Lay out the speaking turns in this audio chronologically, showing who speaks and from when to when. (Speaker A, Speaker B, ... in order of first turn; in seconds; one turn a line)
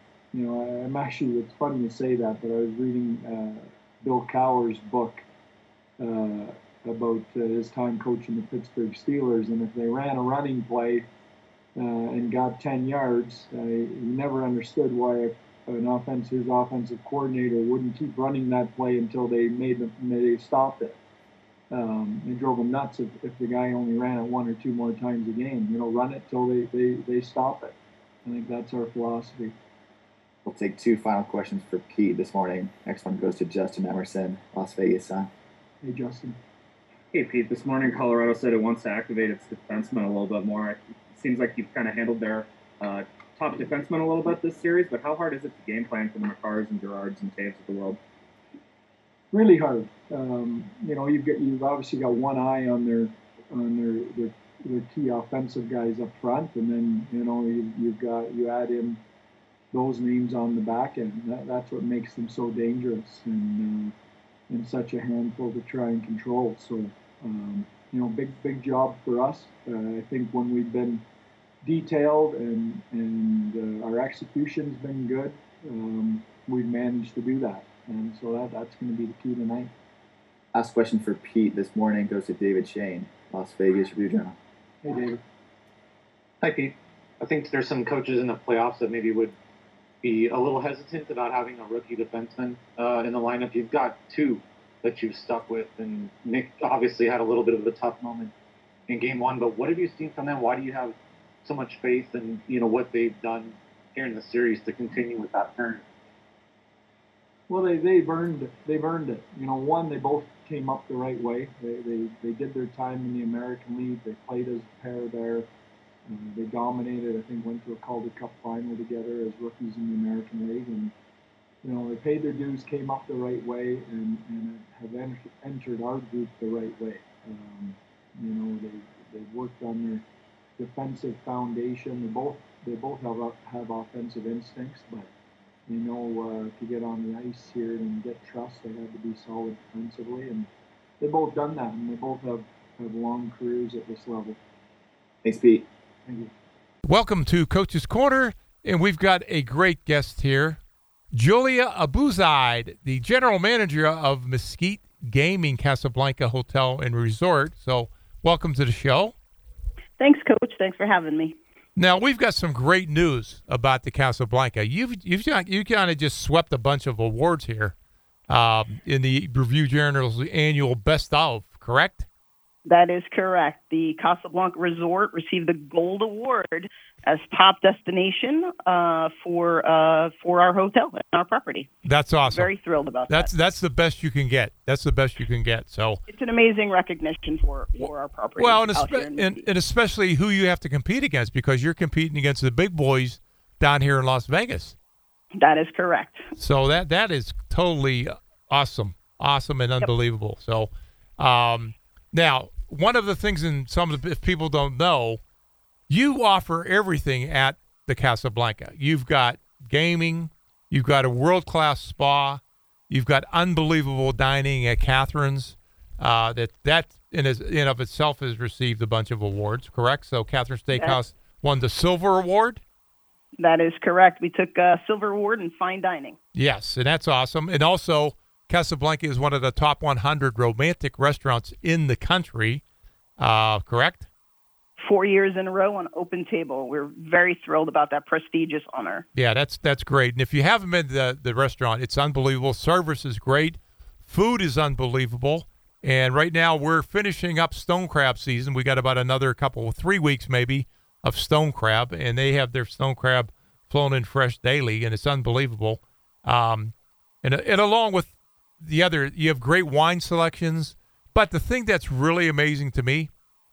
Speaker A: 0.3-5.2
Speaker A: 6.0-11.1
Speaker A: 11.8-21.0
Speaker A: 21.7-29.5
Speaker B: 30.4-35.3
Speaker A: 35.8-36.4
Speaker C: 37.1-48.0
Speaker A: 49.3-59.0
Speaker A: 59.7-63.9
Speaker A: 64.5-71.0
Speaker A: 71.6-79.7
Speaker B: 80.5-84.3
Speaker A: 84.8-85.2
Speaker D: 86.4-89.3
Speaker D: 90.0-98.3
Speaker D: 98.9-105.8
Speaker A: 107.5-115.5
Speaker A: 116.1-120.9
Speaker A: 121.6-130.0
Speaker A: 130.6-135.1
Speaker A: 135.7-140.5
Speaker A: 141.0-144.4
Speaker B: 145.2-145.7
Speaker A: 146.1-146.3
Speaker E: 146.8-150.6
Speaker E: 151.1-159.1
Speaker F: 160.0-161.3
Speaker E: 161.8-167.7
Speaker E: 168.3-172.1
Speaker F: 172.7-181.7
Speaker E: 181.8-182.5
Speaker F: 182.3-183.3
Speaker E: 183.1-186.0
Speaker F: 186.1-189.4
Speaker E: 188.4-194.8
Speaker F: 195.4-196.3
Speaker E: 196.3-205.2
Speaker E: 205.9-222.6
Speaker F: 223.4-226.2
Speaker E: 226.3-232.6
Speaker E: 233.2-234.1
Speaker F: 234.8-239.1
Speaker E: 239.1-263.1